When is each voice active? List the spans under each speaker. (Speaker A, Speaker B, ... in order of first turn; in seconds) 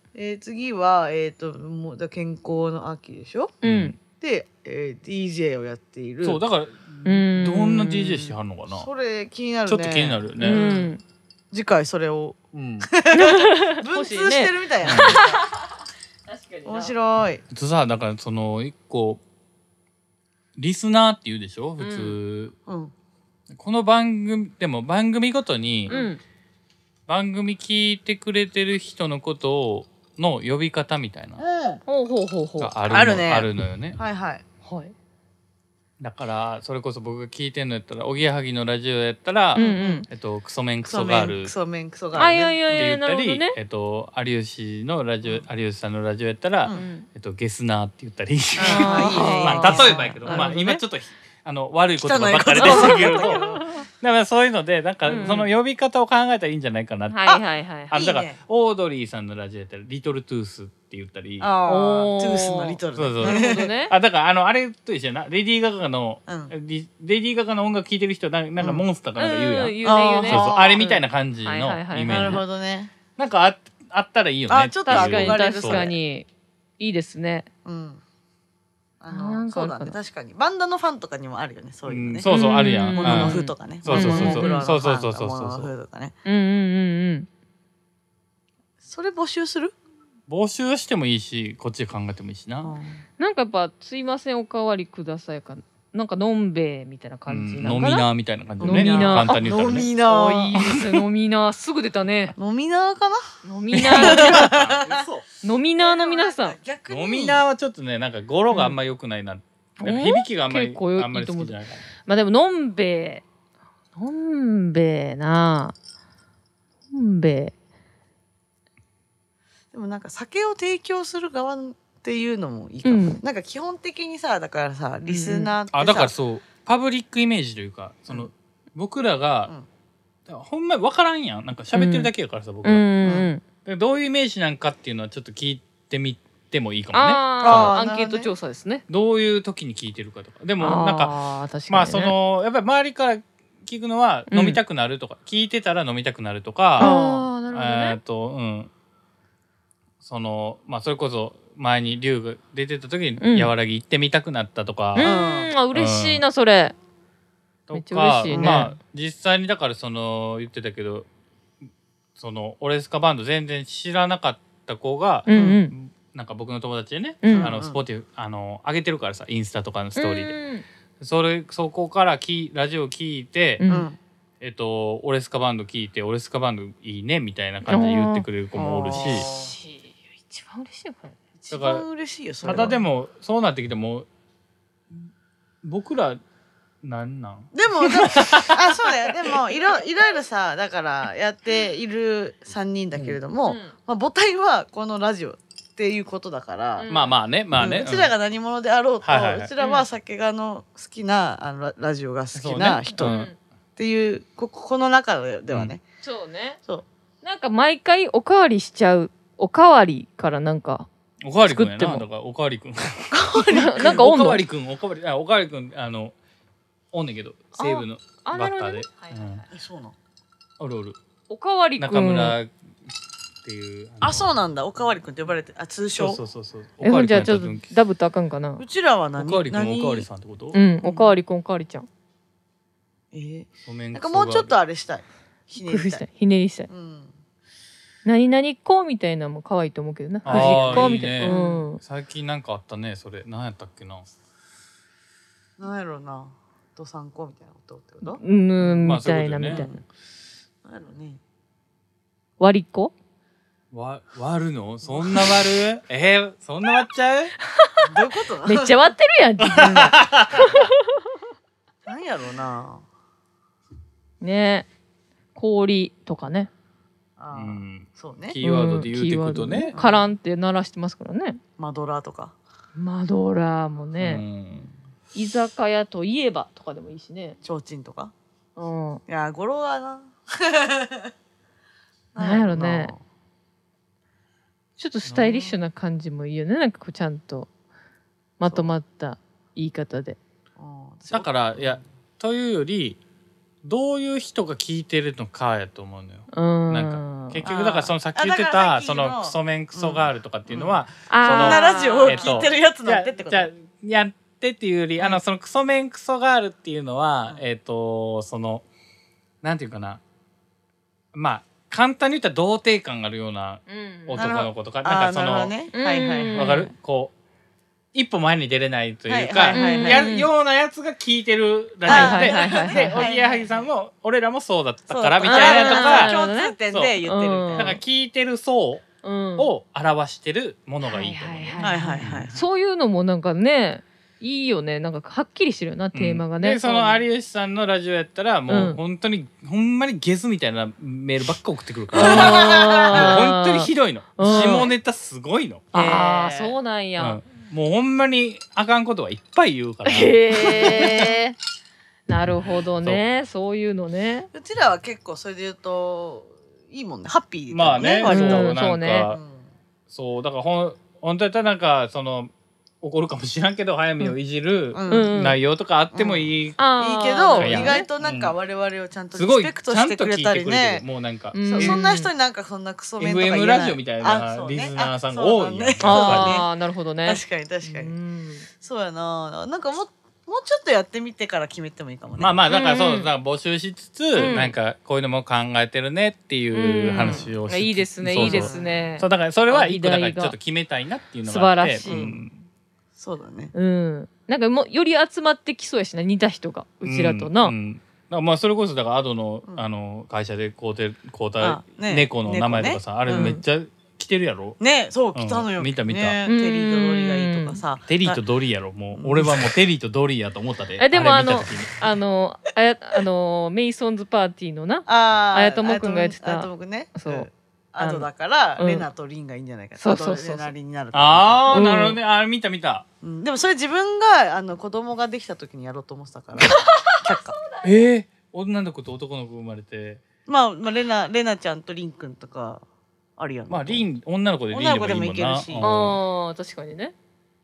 Speaker A: 0.1-3.5, 4.2-6.4, 8.7-10.9, 11.5-15.4, 16.6-17.4, 22.6-22.9, 31.4-31.8, 32.8-34.4, 39.5-40.0, 40.8-42.9, 48.6-50.8, 52.0-53.8, 57.9-58.4, 61.4-63.7, 66.3-66.5, 69.8-70.9, 72.1-72.9, 74.5-76.0, 77.6-78.0, 79.0-82.3, 83.0-86.1, 88.8-89.7, 92.6-93.0, 98.6-100.7, 102.3-105.0, 105.8-107.4, 119.7-126.1, 133.0-133.3, 137.4-138.3, 146.8-147.2, 155.0-155.5, 158.3-158.7, 165.3-165.6, 167.3-167.8, 173.7-174.0, 178.5-179.5, 181.4-182.8, 187.5-196.9, 197.5-203.1, 203.8-205.8, 213.1-214.1, 219.5-219.9, 224.0-226.2, 228.6-230.1, 230.8-231.1, 233.1-236.0, 236.7-237.1, 240.2-241.6, 245.6-248.8, 249.4-249.8, 250.6-251.2, 254.9-255.3, 257.8-258.8, 261.9-262.8, 267.2-268.4, 269.7-270.1, 271.6-272.3, 277.4-278.1, 279.1-281.1, 282.1-283.0, 290.6-291.8, 297.4-303.5, 314.1-316.7, 319.1-320.1, 321.8-323.7, 324.9-327.8, 331.6-332.4, 341.9-343.2, 345.7-346.6, 350.5-351.1, 354.3-359.5, 364.7-365.1, 365.9-370.8, 371.4-376.5, 377.0-377.9, 378.6-382.4, 387.0-387.3, 388.2-388.9, 391.8-392.2, 392.9-393.5, 401.4-403.4, 404.6-408.2, 408.9-409.5, 414.9-421.5, 423.0-427.4, 430.2-432.6, 433.2-433.8, 434.5-435.7
Speaker B: 3.6-3.9, 7.0-8.3, 10.4-11.0, 13.1-15.7, 16.3-16.9, 21.8-22.2, 25.9-26.2, 31.9-32.7, 34.6-34.9, 39.5-40.1, 42.1-43.5, 46.7-47.1, 48.6-50.6, 52.5-53.6, 55.0-55.5, 57.1-57.9, 61.6-63.9, 69.2-72.4, 74.8-76.3, 76.8-77.5, 79.1-80.0, 82.2-84.6, 86.2-87.3, 93.2-98.1, 98.6-102.3, 103.4-104.5, 105.4-106.6, 109.8-113.2, 114.0-115.7, 116.9-117.5, 122.8-123.2, 125.0-125.5, 131.7-132.1, 132.6-133.4, 136.9-138.8, 140.6-142.1, 144.3-144.6, 146.8-148.0, 153.2-153.5, 154.9-156.7, 157.7-158.7, 165.2-165.7, 167.2-167.5, 169.9-170.6, 173.6-173.9, 177.7-178.2, 178.9-181.2, 182.4-182.8, 193.4-193.7, 196.8-197.2, 199.6-199.8, 203.0-203.3, 206.0-206.6, 207.2-210.9, 211.4-212.0, 213.4-214.4, 217.6-219.4, 221.3-222.3, 226.8-228.6, 230.5-231.9, 235.6-236.7, 238.0-241.8, 248.0-249.8, 252.4-252.9, 257.5-257.9, 258.4-261.0, 264.2-264.7, 265.3-266.5, 268.4-271.4, 272.8-274.2, 275.1-277.4, 278.6-279.0, 282.2-282.9, 284.8-287.5, 288.4-290.2, 296.3-297.4, 301.1-302.5, 313.7-314.2, 315.7-316.6, 319.5-320.3, 321.9-323.1, 325.2-327.8, 329.0-329.5, 330.8-337.0, 338.5-338.8, 341.9-344.7, 345.7-347.2, 349.8-351.3, 352.1-354.3, 358.0-359.1, 364.9-365.4, 366.6-367.9, 371.3-372.1, 375.8-378.4, 382.5-383.1, 384.2-384.5, 386.5-390.4, 391.3-392.0, 393.5-397.5, 403.1-403.4, 406.2-407.6, 410.8-417.3, 417.8-418.9, 419.8-420.5, 421.5-422.0, 435.6-436.9
Speaker C: 3.6-3.9, 6.2-8.9, 9.7-10.7, 12.5-12.9, 14.8-15.2, 17.5-19.2, 20.6-22.5, 23.5-25.9, 27.1-31.4, 32.6-34.0, 36.0-41.5, 42.7-57.3, 57.9-61.5, 62.9-72.4, 73.2-75.8, 81.9-85.7, 90.3-92.7, 97.3-99.9, 103.8-105.2, 106.9-111.8, 125.7-129.5, 130.3-132.8, 133.6-137.7, 138.9-141.1, 141.7-146.9, 147.5-148.7, 150.0-155.1, 155.7-156.2, 157.7-161.1, 162.2-170.3, 171.0-173.6, 174.4-179.3, 181.5-181.8, 182.4-184.1, 185.6-186.2, 186.8-189.3, 192.9-193.2, 196.9-198.1, 199.0-199.5, 202.3-203.3, 211.2-213.2, 213.8-216.1, 216.9-219.4, 220.6-221.0, 221.8-222.5, 223.4-224.3, 225.9-227.7, 229.2-230.6, 233.7-234.5, 240.2-244.1, 248.8-249.6, 253.7-257.3, 259.4-260.6, 267.3-269.7, 274.0-274.7, 285.1-285.4, 291.1-293.0, 293.6-308.6, 309.4-310.0, 311.1-315.5, 316.3-317.1, 317.9-326.2, 326.7-327.0, 327.5-328.8, 329.4-332.3, 335.9-345.7, 347.0-351.0, 357.5-359.2, 359.9-362.3, 362.8-366.6, 367.4-368.3, 369.1-371.8, 373.0-376.4, 382.2-392.3, 396.8-404.6, 405.1-406.2, 407.9-411.9, 420.9-422.8, 427.6-430.0, 433.5-436.0